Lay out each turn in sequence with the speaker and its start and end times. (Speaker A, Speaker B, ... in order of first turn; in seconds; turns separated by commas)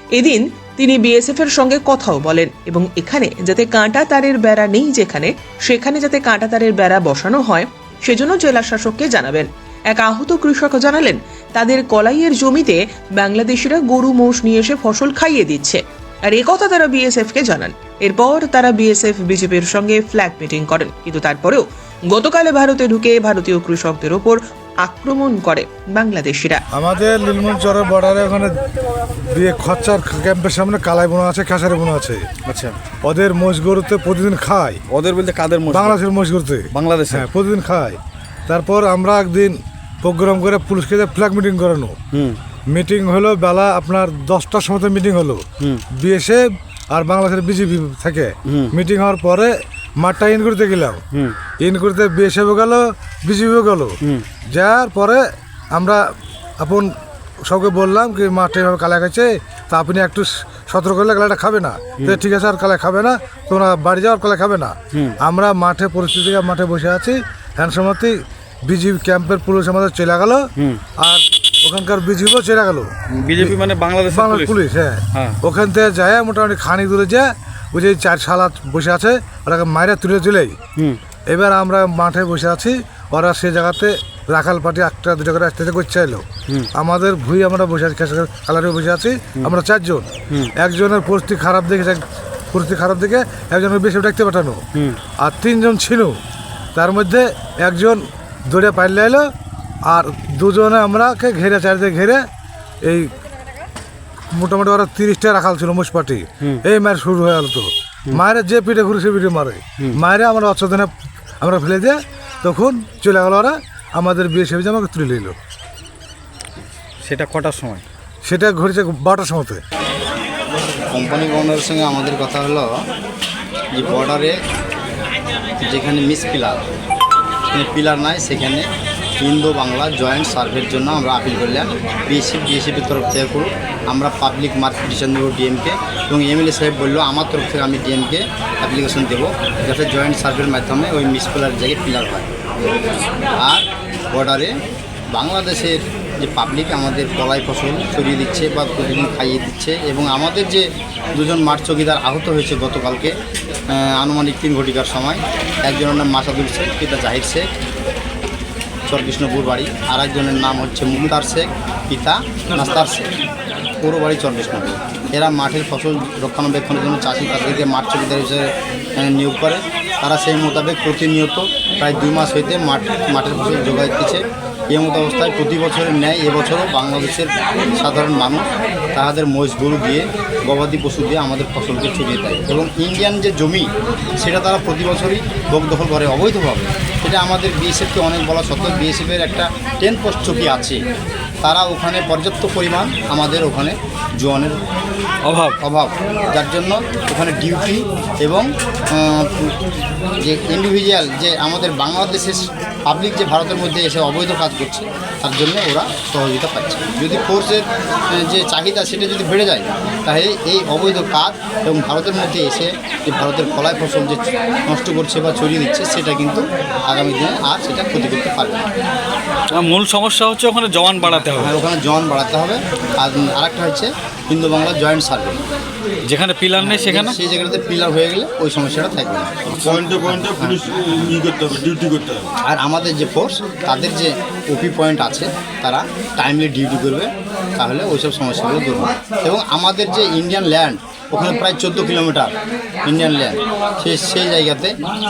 Speaker A: 0.1-26.6, Speaker B: 26.7-28.6, Speaker B: 29.2-32.2, Speaker C: 32.5-32.8, Speaker B: 33.0-34.8, Speaker C: 34.9-36.0, Speaker B: 35.7-42.0, Speaker C: 36.7-37.3, Speaker C: 42.1-42.4, Speaker B: 42.7-51.0, Speaker C: 48.5-48.7, Speaker B: 51.6-54.0, Speaker B: 54.5-56.0, Speaker B: 56.6-56.9, Speaker B: 57.5-70.5, Speaker B: 71.0-73.6, Speaker C: 73.1-74.6, Speaker B: 74.1-80.6, Speaker C: 75.1-75.4, Speaker B: 81.3-94.6, Speaker C: 94.7-95.0, Speaker B: 95.2-96.2, Speaker B: 96.8-99.3, Speaker B: 99.9-102.3, Speaker B: 102.8-103.1, Speaker B: 104.3-110.9, Speaker B: 111.4-115.4, Speaker C: 117.0-117.8, Speaker B: 118.2-119.6, Speaker D: 120.9-122.7, Speaker D: 123.7-124.4, Speaker D: 125.6-126.7, Speaker D: 127.5-142.3, Speaker D: 143.4-144.5, Speaker D: 145.1-153.2, Speaker D: 153.7-157.5, Speaker D: 158.9-163.1, Speaker D: 163.8-190.8, Speaker D: 191.4-194.6, Speaker C: 195.2-195.6, Speaker D: 195.6-199.5, Speaker D: 200.2-218.7, Speaker C: 219.6-221.6, Speaker D: 221.3-225.4, Speaker C: 226.1-227.2, Speaker D: 226.6-229.7, Speaker E: 229.5-232.3, Speaker D: 232.4-242.3, Speaker D: 242.8-244.8